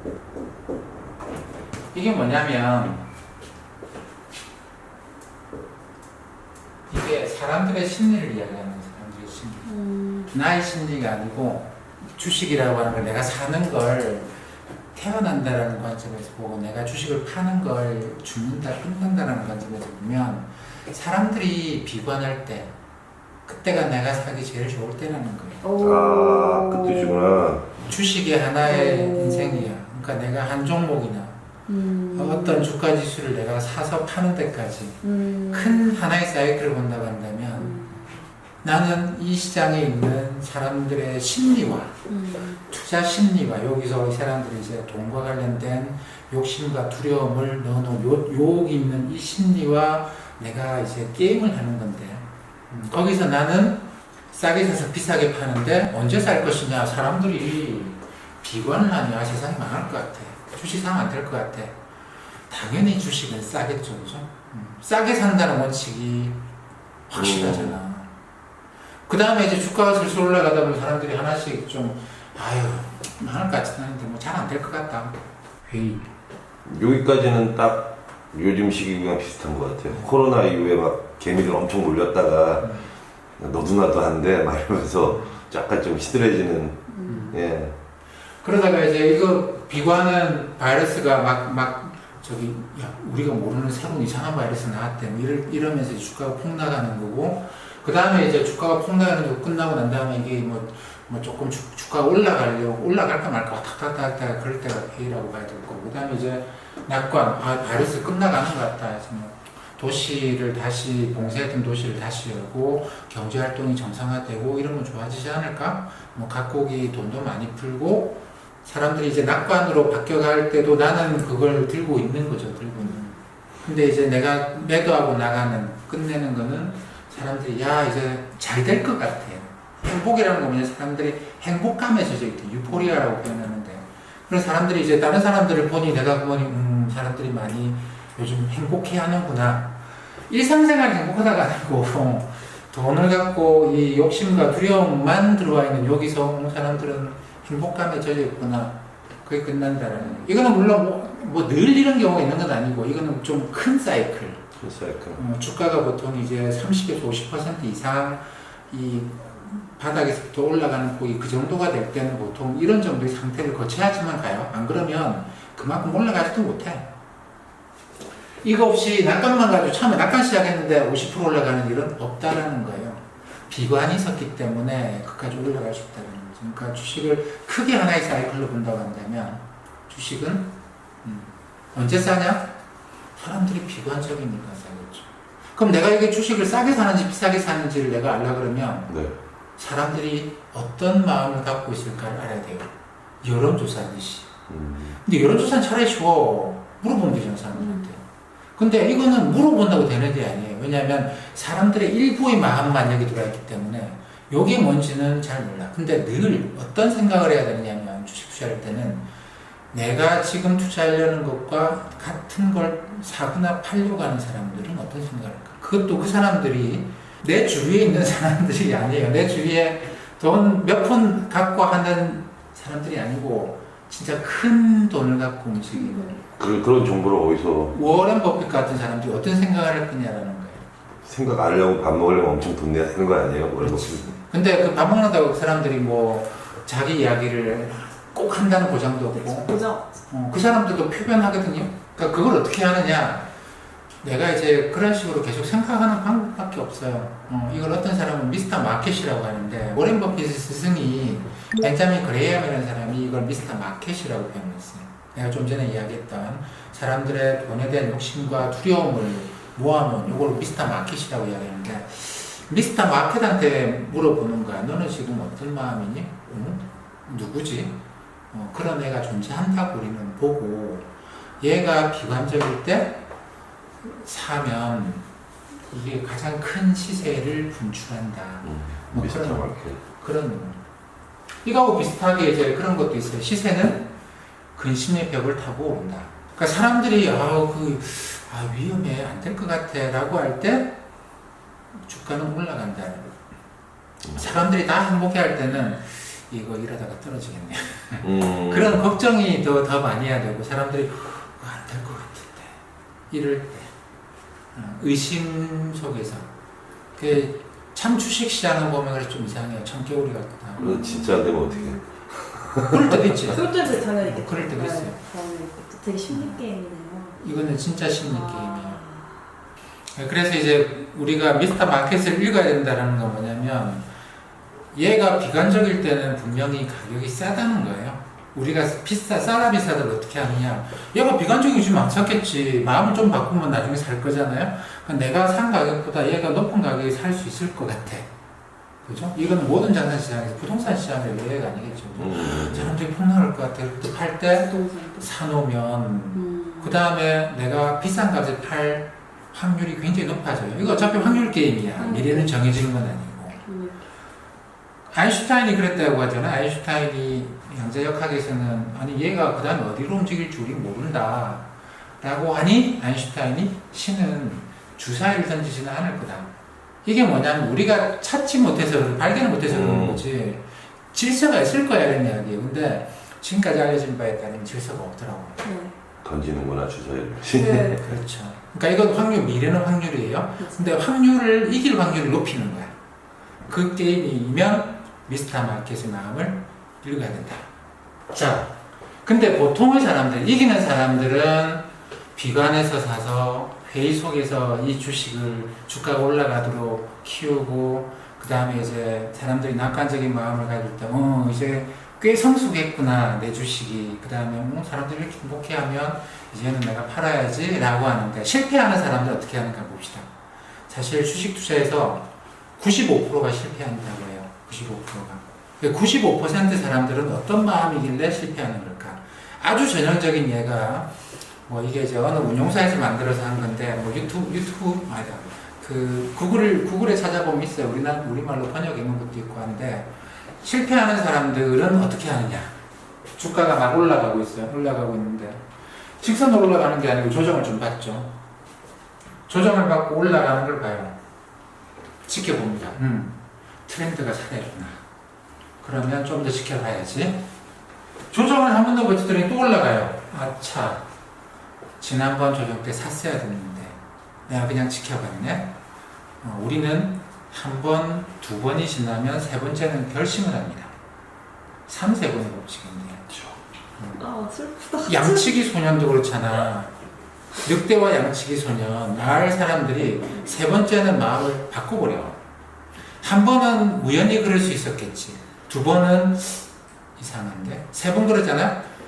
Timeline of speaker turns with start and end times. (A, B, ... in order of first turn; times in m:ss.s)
0:01.9-0:03.0 A
0:06.9-0:09.7 A
0:09.6-0:10.3 B
0:10.3-0:14.3 A
0:14.9-0:22.7 A
0:23.5-0:25.6 A
0:25.6-0:27.2 B
0:25.8-0:27.7 C
0:27.9-0:31.4 A
0:28.6-0:29.7 B
0:31.7-0:32.7 B
0:32.1-0:35.0 A
0:35.0-0:35.9 B
0:35.5-0:37.8 A
0:37.6-0:38.2 B
0:38.6-0:41.9 A
0:42.1-0:42.6 B
0:42.7-1:01.8 A
1:02.5-1:06.4 A
1:07.1-1:08.1 A
1:07.1-1:07.8 C
1:09.1-1:15.1 A
1:15.6-1:16.1 A
1:16.6-1:22.7 C
1:22.6-1:22.9 A
1:23.4-1:27.7 C
1:25.0-1:25.4 A
1:26.9-1:27.2 B
1:27.0-1:27.4 A
1:28.4-2:19.8 A
2:02.8-2:03.1 B
2:20.3-2:34.5 A
2:34.6-2:35.2 C
2:35.2-2:46.9 A
2:48.4-3:00.5 A
3:01.0-3:02.5 A
3:03.2-3:08.9 A
3:09.6-3:14.3 A
3:14.5-3:15.0 C
3:15.0-3:18.0 A
3:17.6-3:17.8 B
3:18.6-3:29.0 A
3:29.7-3:46.2 A
3:45.8-3:46.1 B
3:46.4-3:47.7 C
3:47.7-3:50.7 A
3:51.0-3:54.1 C
3:53.6-3:59.5 A
3:59.3-3:59.8 B
4:00.1-4:03.3 A
4:04.0-4:27.8 A
4:28.3-4:30.8 A
4:31.4-4:33.0 A
4:33.8-4:35.1 A
4:35.7-4:40.6 A
4:38.4-4:39.8 C
4:41.4-4:43.9 A
4:44.6-4:50.8 A
4:51.8-4:53.1 A
4:54.1-5:02.6 A
4:58.0-4:58.8 C
5:03.1-5:03.7 A
5:04.5-5:06.3 A
5:07.0-5:10.7 A
5:10.6-5:11.8 B
5:10.6-5:13.0 C
5:12.6-5:15.0 A
5:13.3-5:17.2 B
5:16.1-5:16.4 A
5:17.2-5:18.8 A
5:18.0-5:19.2 B
5:19.9-5:23.8 A
5:24.7-5:38.1 A
5:38.8-5:53.4 A
5:42.0-5:42.8 C
5:44.4-5:45.1 B
5:46.1-5:46.7 B
5:50.6-5:52.3 B
5:53.4-5:53.8 B
5:54.9-6:01.5 A
6:02.0-6:06.3 A
6:06.8-6:15.4 A
6:09.5-6:10.0 C
6:15.4-6:15.7 B
6:16.0-6:17.8 C
6:17.3-6:17.8 B
6:17.7-6:22.7 A
6:20.4-6:20.8 B
6:23.5-6:27.4 A
6:28.1-6:28.5 A
6:29.0-6:50.1 A
6:50.7-7:00.9 A
7:01.5-7:09.9 A
7:10.4-7:12.5 A
7:13.2-7:15.4 A
7:16.0-7:18.1 A
7:19.3-7:21.0 A
7:22.0-7:24.8 A
7:25.6-7:27.2 A
7:28.1-7:30.8 A
7:31.8-7:35.5 A
7:36.2-7:40.7 A
7:41.7-7:43.1 A
7:44.0-7:45.4 B
7:44.8-7:46.7 A
7:47.4-7:52.2 A
7:53.0-7:56.4 A
7:57.0-7:58.6 A